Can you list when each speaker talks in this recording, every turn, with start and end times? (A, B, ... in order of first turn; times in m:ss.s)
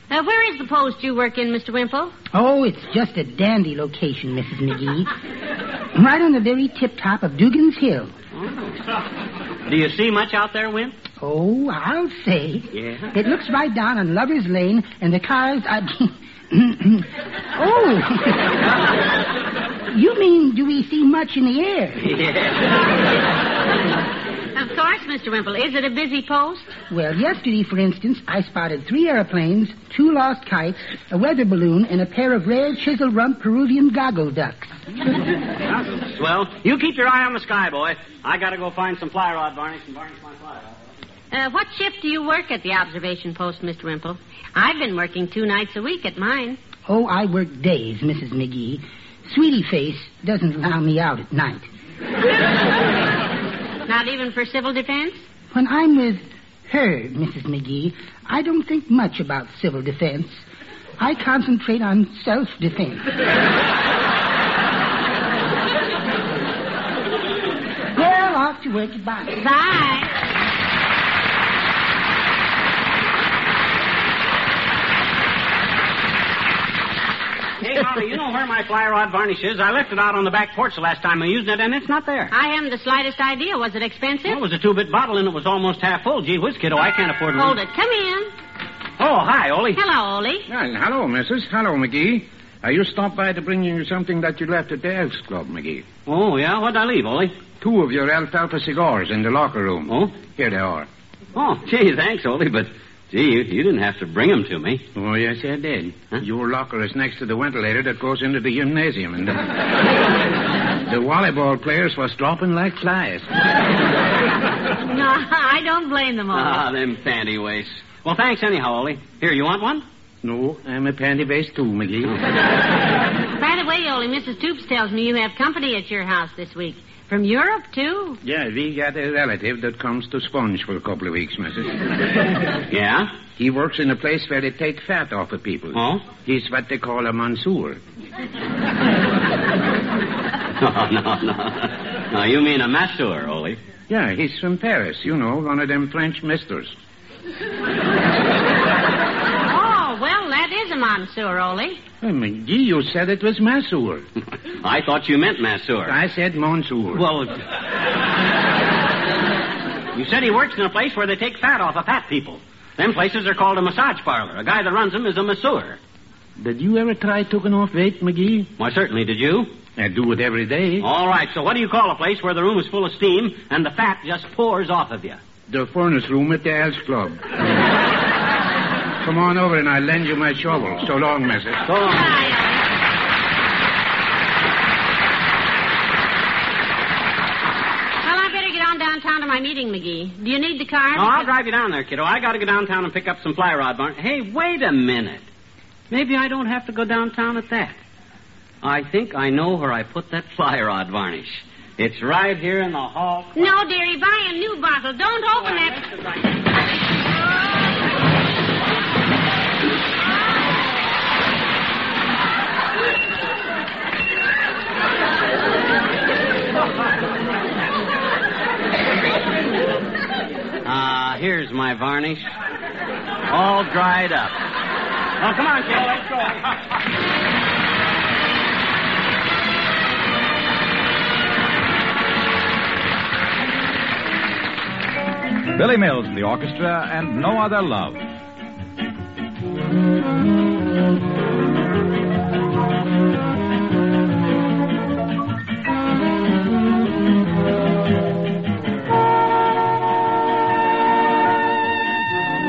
0:00.1-0:02.2 A
0:02.3-0:05.1 B
0:05.9-0:08.1 B
0:08.3-0:08.8 C
0:09.6-0:11.0 C
0:11.2-0:18.7 B
0:12.7-0:13.1 C
0:19.9-0:22.1 B
0:22.0-0:22.8 C
0:24.5-0:26.7 A
0:26.9-0:34.8 B
0:35.6-0:40.7 C
0:41.3-0:46.6 A
0:46.8-0:51.7 B
0:53.9-0:55.2 A
0:55.5-1:00.4 B
1:01.0-1:03.2 B
1:07.9-1:09.4 B
1:09.4-1:10.1 A
1:17.6-1:22.3 C
1:22.3-1:24.4 A
1:24.3-1:27.6 C
1:27.4-1:28.3 A
1:29.0-1:29.8 C
1:29.7-1:30.4 A
1:30.5-1:35.9 D
1:36.1-1:37.4 C
1:37.6-1:40.9 D
1:39.9-1:40.1 C
1:41.4-1:44.8 C
1:45.0-1:49.8 D
1:50.9-1:53.3 D
1:54.8-1:56.7 A
1:56.3-1:59.8 C
2:00.2-2:02.2 D
2:03.4-2:08.2 A
2:08.2-2:11.8 D
2:12.7-2:13.1 C
2:13.4-2:17.8 D
2:15.7-2:16.1 C
2:20.6-2:23.6 C
2:23.9-2:26.7 D
2:29.5-2:31.8 A
2:32.0-2:34.1 D
2:34.6-2:36.0 C
2:35.9-2:37.1 D
2:37.0-2:37.4 C
2:39.9-2:45.8 C
2:46.4-2:48.5 D
2:48.6-2:49.5 C
2:49.8-2:50.9 D
2:50.8-2:55.2 C
2:55.5-2:57.4 D
2:59.0-3:01.6 D
3:01.6-3:02.3 C
3:01.8-3:02.6 A
3:08.0-3:11.3 A
3:10.9-3:15.2 C
3:15.9-3:17.8 C
3:18.6-3:23.5 C
3:23.4-3:25.9 A
3:40.6-3:42.3 C
3:43.3-3:44.4 C
3:45.2-3:46.4 C
3:55.6-3:58.0 E